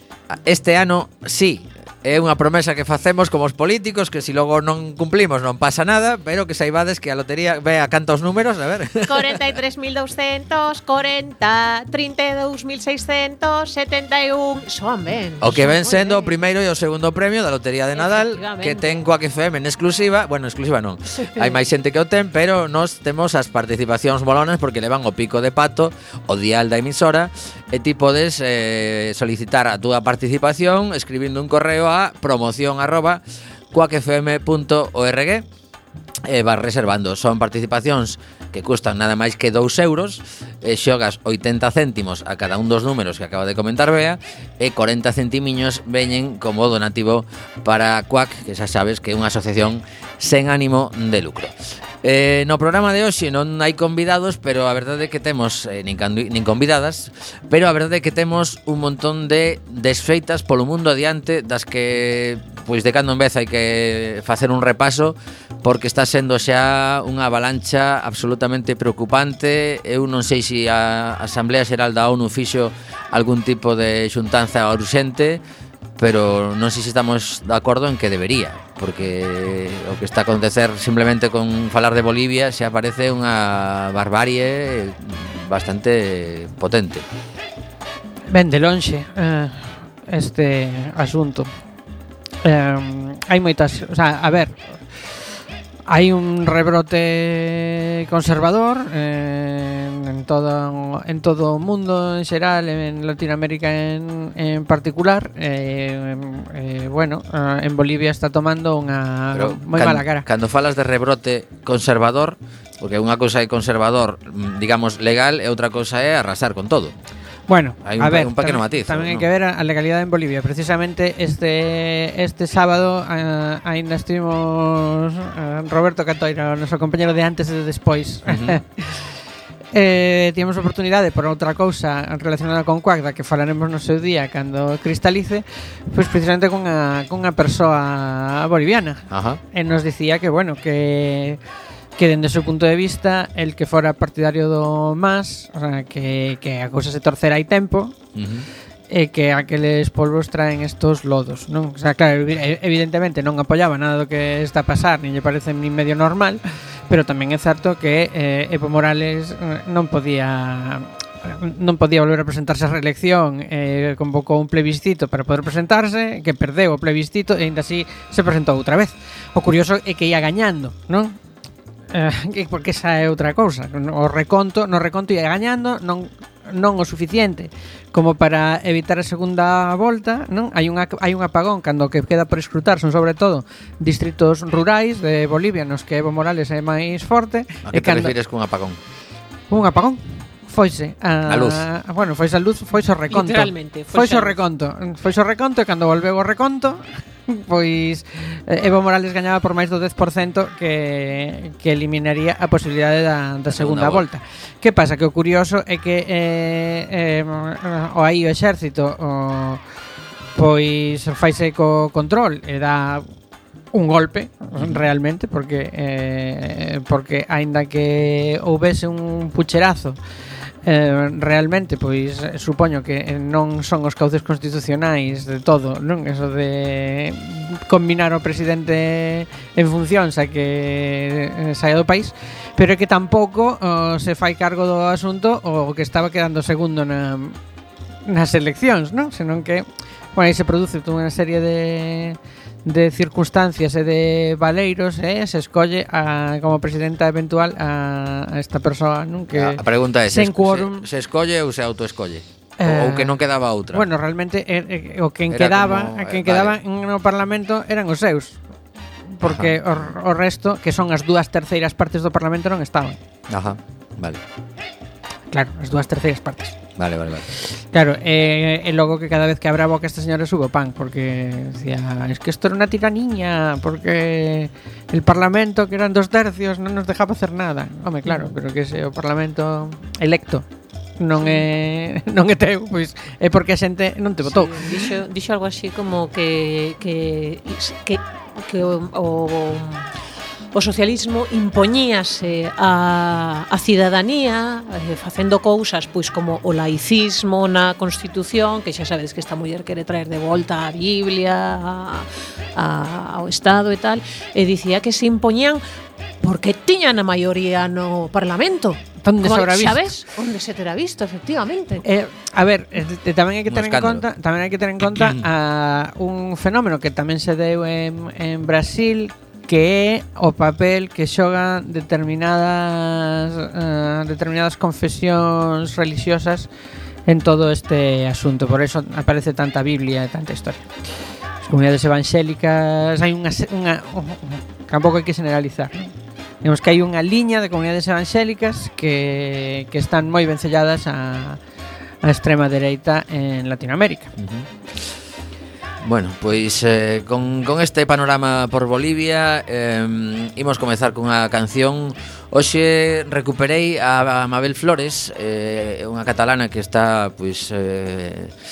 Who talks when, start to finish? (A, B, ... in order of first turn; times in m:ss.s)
0:00.3-0:09.5 A
0:09.0-0:16.3 B
0:15.4-0:35.4 A
0:17.9-0:19.0 B
0:21.2-0:21.6 B
0:36.2-1:15.4 A
1:16.0-1:27.0 A
1:28.3-1:31.5 C
1:32.4-1:34.8 C
1:35.9-1:50.3 C
1:49.3-1:56.9 A
1:57.5-2:09.1 C
1:57.8-1:59.3 A
2:08.3-2:08.6 A
2:09.7-2:21.4 C
2:19.1-2:19.4 A
2:22.0-2:27.9 C
2:28.1-2:28.5 A
2:28.9-2:51.2 C
2:51.9-3:08.1 C
3:07.7-3:08.8 A
3:09.5-3:29.6 C
3:11.2-3:11.6 A
3:13.1-3:14.4 B
3:23.5-3:24.0 A
3:30.4-3:33.0 C
3:33.7-3:40.0 C
3:34.6-3:34.8 A
3:40.6-3:57.4 C
3:58.0-4:10.8 C
4:09.3-4:13.8 A
4:12.6-4:13.2 C
4:13.7-4:18.4 C
4:15.3-4:16.6 A
4:19.1-4:23.0 C
4:19.2-4:19.9 A
4:23.3-4:24.2 A
4:25.3-4:26.6 C
4:26.8-4:27.3 A
4:27.7-4:40.4 C
4:41.0-4:44.7 C
4:44.2-4:49.9 B
4:50.5-5:05.6 B
5:06.2-5:11.8 B
5:09.0-5:09.9 C
5:11.8-5:26.5 C
5:13.5-5:14.0 A
5:14.8-5:15.2 A
5:27.0-5:30.7 C
5:31.5-5:35.9 C
5:36.4-5:41.4 C
5:42.0-5:44.1 C
5:44.2-5:44.5 A
5:45.8-5:58.3 A